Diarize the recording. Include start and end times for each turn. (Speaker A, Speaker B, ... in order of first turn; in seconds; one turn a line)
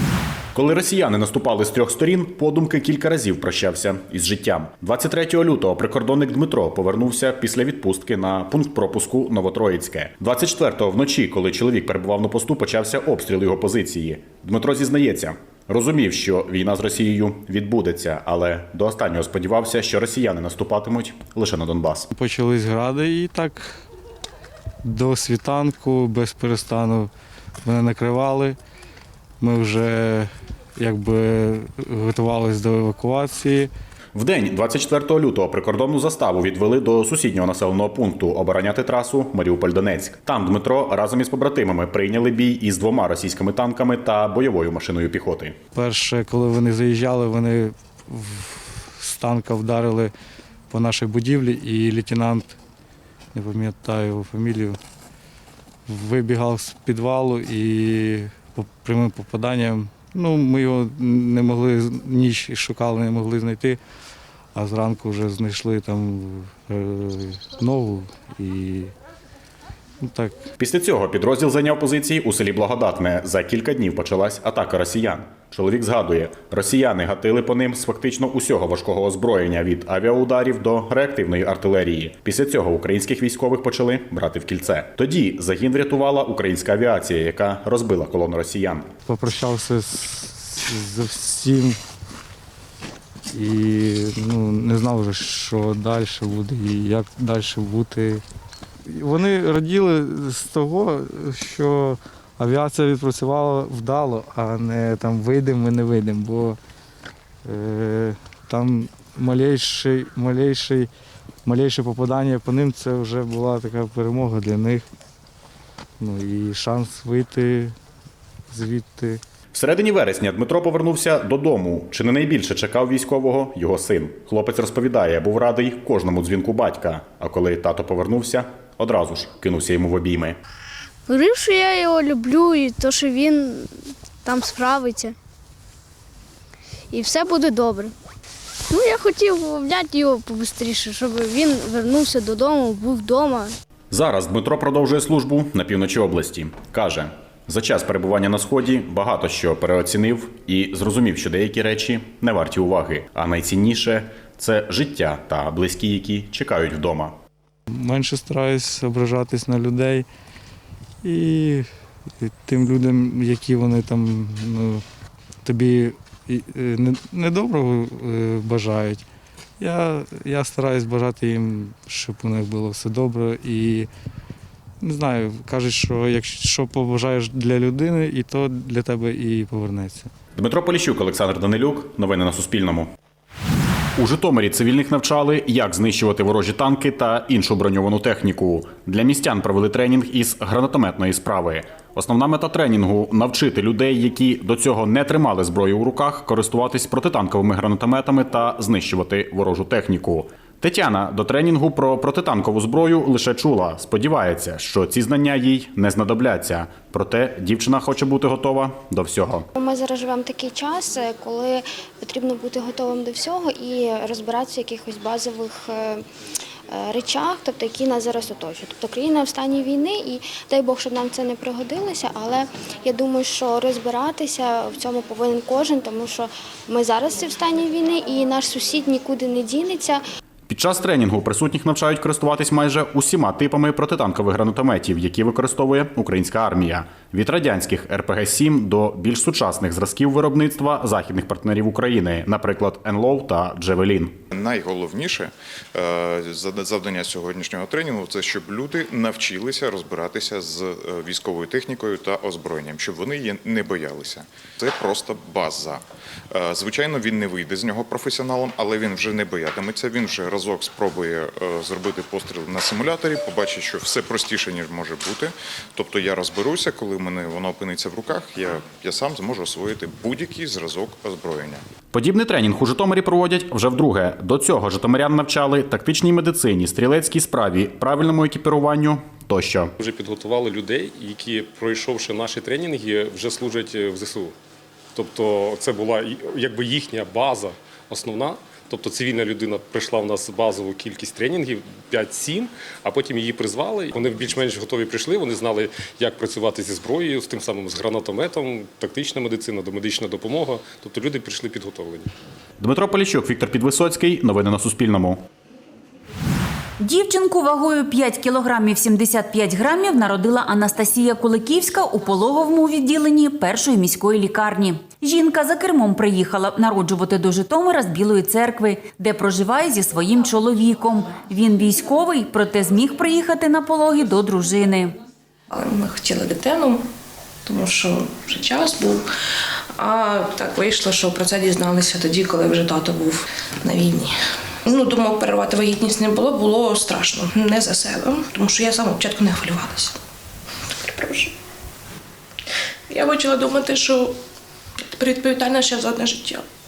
Speaker A: 0.5-22.1
Speaker B: 22.1-23.8
Speaker B: 24.8-27.1
Speaker B: 27.6-28.6
Speaker B: 29.4-33.7
Speaker A: 34.1-45.5
Speaker B: 45.7-50.1
Speaker B: 50.7-52.5
Speaker B: 53.3-54.8
Speaker B: 55.9-63.8
Speaker B: 64.5-68.9
Speaker B: 70.0-70.3
Speaker A: 70.6-88.9
Speaker B: 89.1-91.8
Speaker B: 93.3-98.2
Speaker B: 98.9-106.6
Speaker B: 107.5-110.9
Speaker B: 111.4-114.8
Speaker B: 116.0-117.7
Speaker B: 118.5-119.2
Speaker A: 119.5-130.4
Speaker C: 131.1-135.1
Speaker C: 136.9-137.9
Speaker C: 138.7-143.5
Speaker A: 143.9-157.2
Speaker B: 157.7-160.1
Speaker B: 161.0-161.7
Speaker B: 162.2-164.8
Speaker B: 165.4-169.0
Speaker B: 169.6-173.9
Speaker B: 174.8-180.1
Speaker A: 180.3-182.9
Speaker A: 184.0-209.4
Speaker D: 209.6-216.0
Speaker D: 216.7-230.0
Speaker A: 230.5-244.2
Speaker E: 244.3-271.6
Speaker A: 271.9-279.7
Speaker F: 279.8-284.3
Speaker F: 285.0-302.0
Speaker A: 302.6-305.2
Speaker G: 306.8-324.9
Speaker H: 325.5-326.9
Speaker H: 327.4-329.0
Speaker H: 329.8-334.1
Speaker H: 334.6-340.0
Speaker H: 340.7-341.3
Speaker H: 342.9-344.1
Speaker H: 344.9-346.4